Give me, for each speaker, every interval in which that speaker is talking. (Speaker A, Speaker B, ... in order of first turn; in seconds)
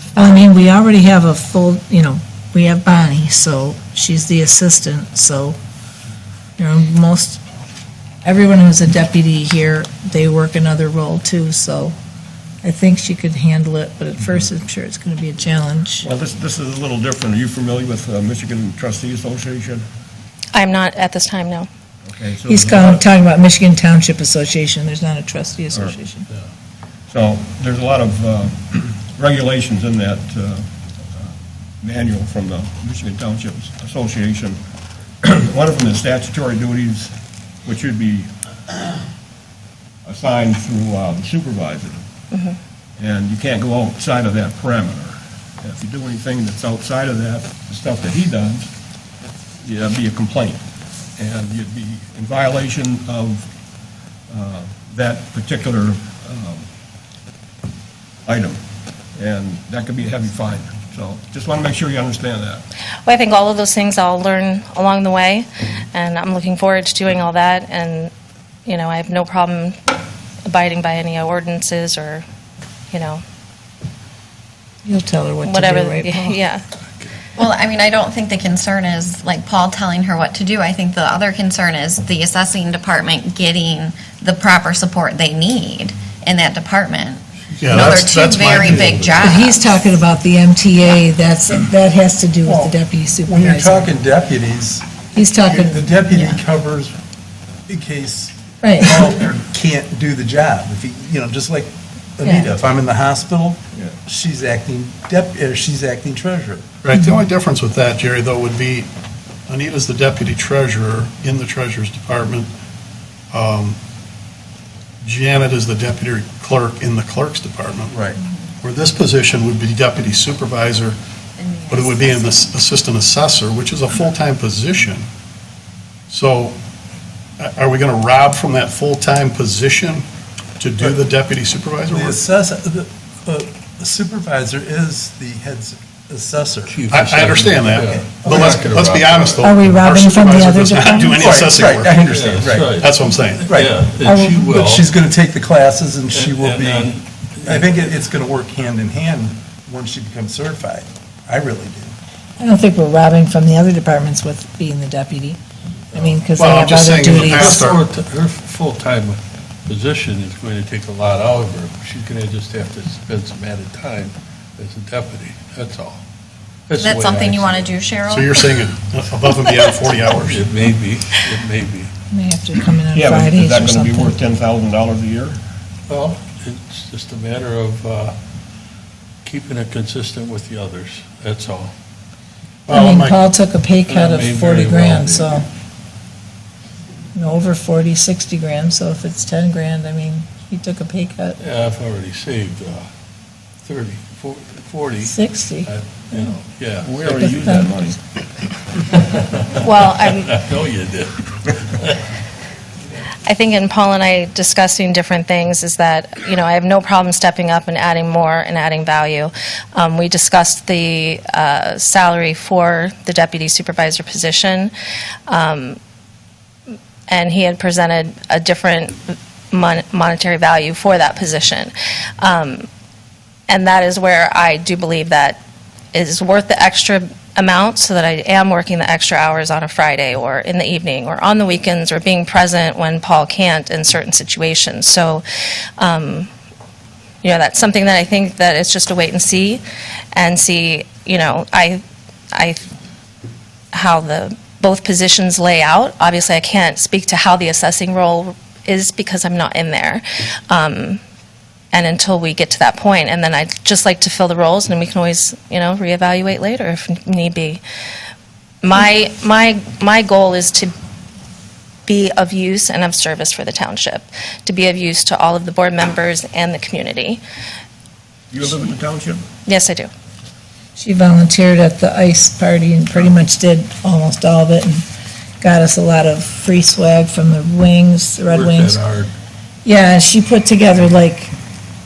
Speaker A: 0.2-5.6, 6.6-7.4, 8.2-11.9, 12.6-16.1, 22.5-26.2, 74.8-76.4, 89.2-94.0, 95.1-96.4, 98.6-99.0, 102.2-102.5, 139.4-141.3, 144.0-144.4, 152.4-155.4, 155.9-157.6, 172.1-174.2, 182.7-185.4, 187.2-191.4, 195.0-196.2, 197.2-197.9, 270.8-274.8, 275.4-278.8, 279.6-281.3
Speaker B: 16.0-19.8, 22.1-23.0, 27.1-34.6, 35.2-37.1, 37.6-38.3, 40.0-42.0, 43.0-48.7, 49.6-50.6, 51.2-53.5, 54.3-56.6, 58.3-58.6, 59.2-62.6, 172.9-175.4, 196.8-198.0, 268.3-269.2
Speaker C: 20.6-21.7, 42.3-42.6, 63.1-68.1, 68.7-69.8, 70.5-72.2, 72.9-73.2, 75.4-76.6, 199.6-200.3, 203.3-214.7, 215.3-215.8, 217.1-222.7, 223.5-225.4, 225.9-235.2, 235.8-236.3, 237.2-239.6, 240.2-241.8, 242.3-242.7, 243.7-251.0, 251.7-257.6, 258.6-260.7, 261.9-267.2, 269.5-269.9
Speaker D: 77.4-90.0, 121.4-122.5, 166.8-168.7
Speaker E: 87.6-89.0, 106.8-108.9, 109.5-112.5, 113.3-113.8, 115.0-118.0, 118.6-121.0, 121.7-125.1, 126.1-126.6, 127.4-130.1, 130.6-132.2, 136.9-142.2, 142.8-143.5, 156.4-157.8, 168.1-170.4, 182.7-183.2
Speaker F: 88.7-89.1, 92.4-92.7, 93.3-97.0, 97.7-106.8, 117.9-118.2, 130.8-131.0, 131.9-136.8, 137.8-138.7, 141.2-142.8, 143.4-143.8, 144.5-151.9
Speaker G: 88.7-89.2, 136.7-139.5, 142.0-144.9, 146.1-147.9, 155.9-156.2, 157.3-166.0, 166.7-167.8, 170.2-171.9, 175.9-178.2, 179.2-181.7, 183.9-185.4, 191.4-192.9, 193.7-197.6, 198.9-202.1, 278.2-279.1